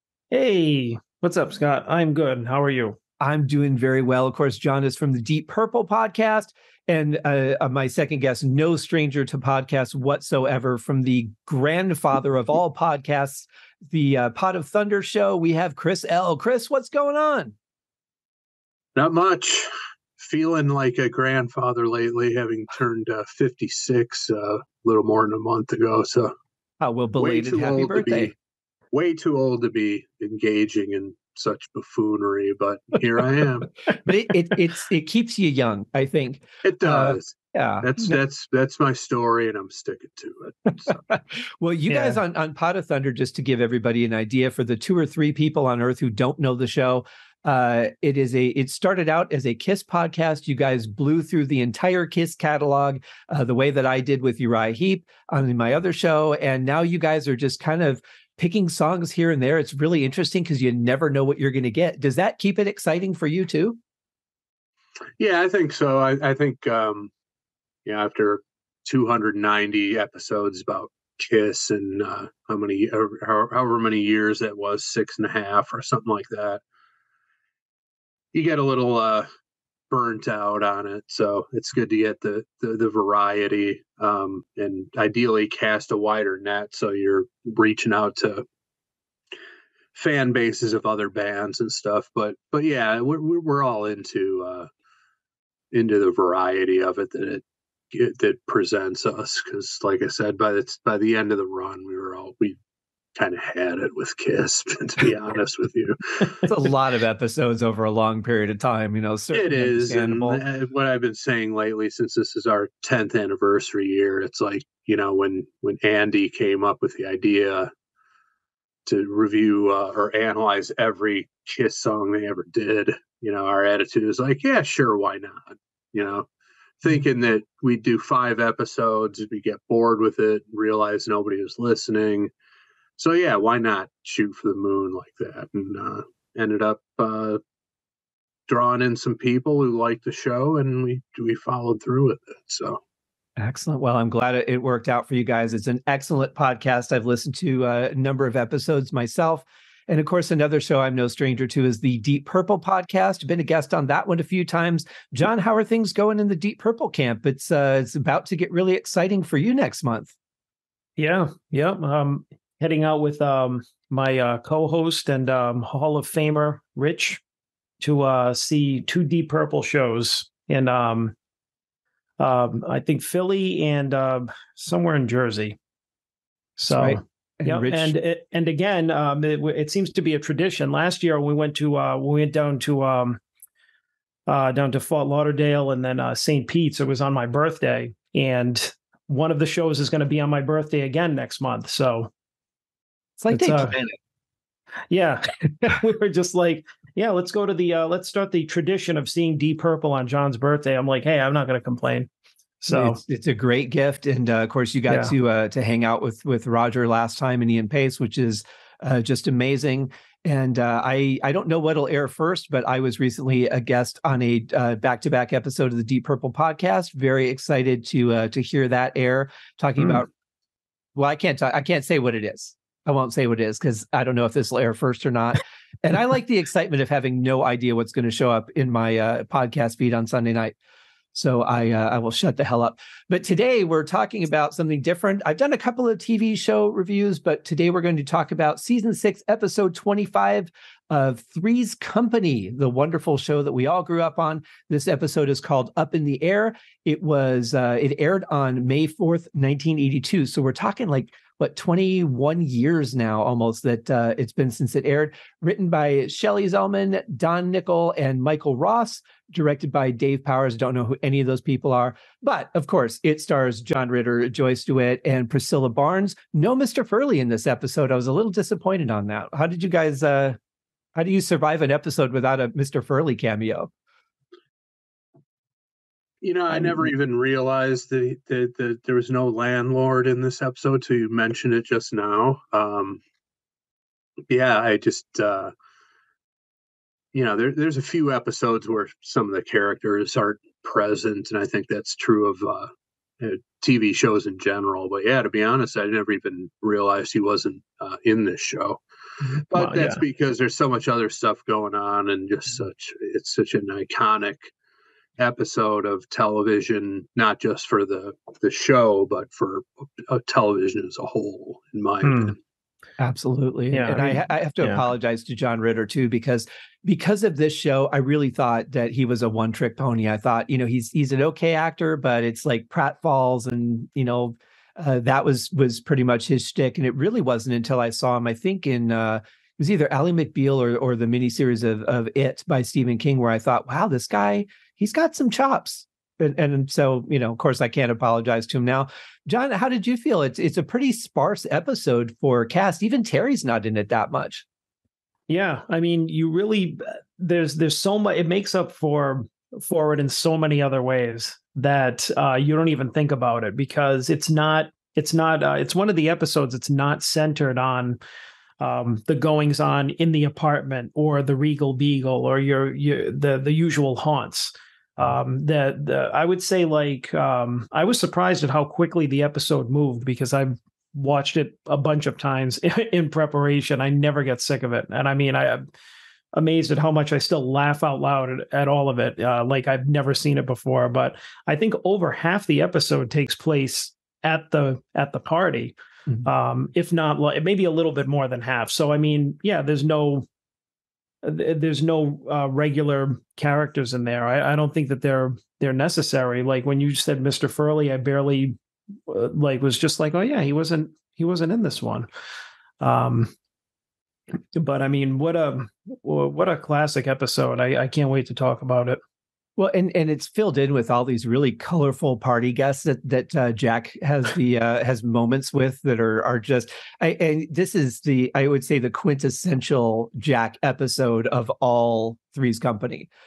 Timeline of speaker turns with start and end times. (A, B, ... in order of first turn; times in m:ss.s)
0:00.3-0:03.0 A
0:03.2-0:17.6 B
0:19.0-0:19.7 C
0:20.2-0:26.3 C
0:26.8-0:28.3 B
0:27.2-0:28.4 C
0:28.9-0:33.7 C
0:34.0-0:38.2 B
0:36.6-0:41.0 C
0:41.1-1:03.8 B
1:05.2-1:07.1 C
1:07.8-1:16.6 C
1:18.3-1:19.3 C
1:19.9-1:28.4 C
1:29.9-1:34.7 C
1:35.7-1:42.6 C
1:43.2-1:46.5 C
1:46.4-1:50.4 B
1:49.3-1:57.7 C
1:58.9-2:06.3 C
2:06.8-2:12.3 C
2:13.0-2:17.4 C
2:18.5-2:22.8 C
2:23.4-2:40.1 B
2:41.0-2:47.2 A
2:47.8-2:51.2 A
2:52.2-2:55.6 A
2:56.6-3:03.2 A
2:56.7-2:58.0 B
3:04.3-3:12.1 A
3:13.2-3:14.0 B
3:13.3-3:13.8 A
3:14.9-3:22.1 A
3:22.6-3:23.0 A
3:22.7-3:40.1 B
3:24.9-3:25.1 A
3:41.0-3:50.6 B
3:51.1-4:30.4 B
4:31.0-4:33.7 B
4:36.2-4:43.0 C
4:44.3-4:45.5 C
4:47.1-4:58.8 C
4:59.2-5:00.0 A
4:59.5-5:04.5 C
5:05.2-5:12.4 C
5:12.0-5:12.4 A
5:13.0-5:44.4 B
5:13.7-5:14.8 A
5:45.3-5:58.0 A
5:58.6-6:15.6 A
6:16.3-6:30.3 A
6:31.2-6:38.6 A
6:39.1-6:42.1 A
6:42.8-6:43.3 A
6:44.6-6:49.0 A
6:49.6-7:03.1 B